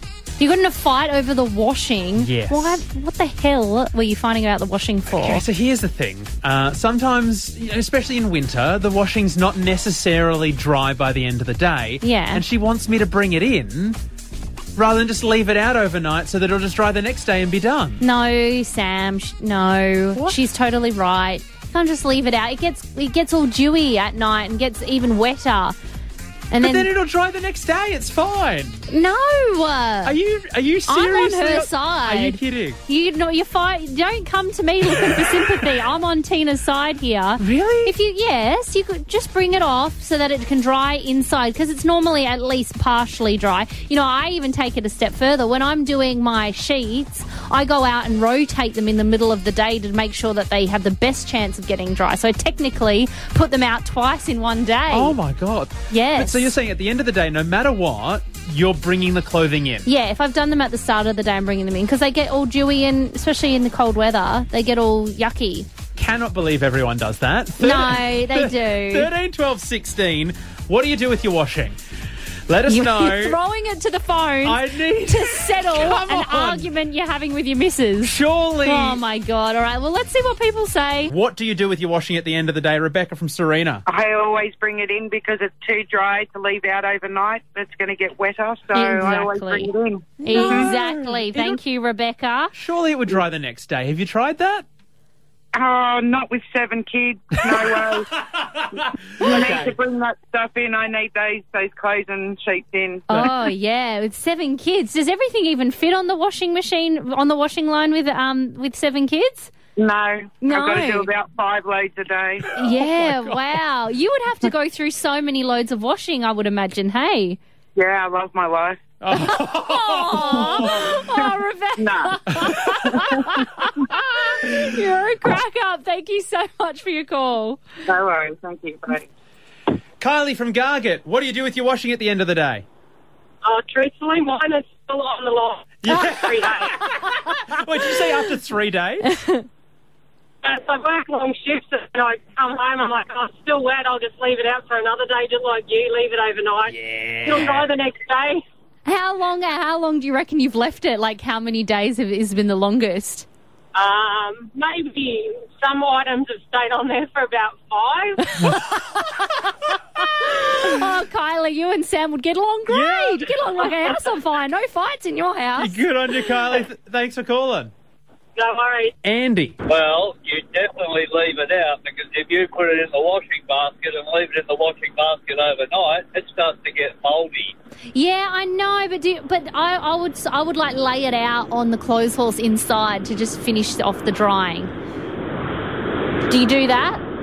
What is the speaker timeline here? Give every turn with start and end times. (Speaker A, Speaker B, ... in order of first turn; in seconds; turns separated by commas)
Speaker A: 0.4-5.4, Speaker B: 2.1-2.8, Speaker B: 5.1-14.0, Speaker A: 12.0-12.4, Speaker B: 14.8-18.0, Speaker A: 18.0-25.8, Speaker A: 26.5-26.9, Speaker B: 26.6-28.9, Speaker A: 28.9-30.2, Speaker B: 30.0-32.8, Speaker A: 30.9-55.2, Speaker B: 35.0-35.6, Speaker B: 37.4-37.9, Speaker B: 54.9-59.9, Speaker A: 55.9-56.5, Speaker A: 59.9-65.7, Speaker B: 65.9-71.8, Speaker A: 67.6-69.1, Speaker B: 72.5-73.4, Speaker A: 72.7-81.1, Speaker B: 74.4-76.7, Speaker B: 78.0-79.0, Speaker B: 81.1-83.8, Speaker C: 83.9-90.7, Speaker A: 88.7-92.5, Speaker B: 90.3-91.6, Speaker B: 92.5-94.7, Speaker C: 95.5-98.2, Speaker B: 98.3-98.6, Speaker C: 98.8-103.2, Speaker B: 99.2-99.7, Speaker A: 99.2-99.6, Speaker A: 103.1-109.5, Speaker C: 109.8-112.4, Speaker A: 110.4-111.1, Speaker B: 112.5-113.5, Speaker A: 112.5-117.4, Speaker C: 117.8-118.8, Speaker B: 119.0-120.9, Speaker A: 119.1-127.6, Speaker C: 120.5-121.1, Speaker C: 121.8-123.4, Speaker C: 127.9-129.1, Speaker B: 130.0-132.6, Speaker D: 133.4-136.8, Speaker B: 135.8-139.2, Speaker D: 140.4-148.4, Speaker B: 147.2-147.6, Speaker A: 148.8-153.2, Speaker D: 153.7-158.6, Speaker B: 158.4-158.7, Speaker A: 158.4-159.3, Speaker A: 160.0-165.8, Speaker B: 162.7-163.4, Speaker B: 165.6-167.7, Speaker D: 168.4-168.9, Speaker B: 169.0-169.6, Speaker E: 169.7-177.5, Speaker A: 177.9-184.7, Speaker A: 186.3-187.0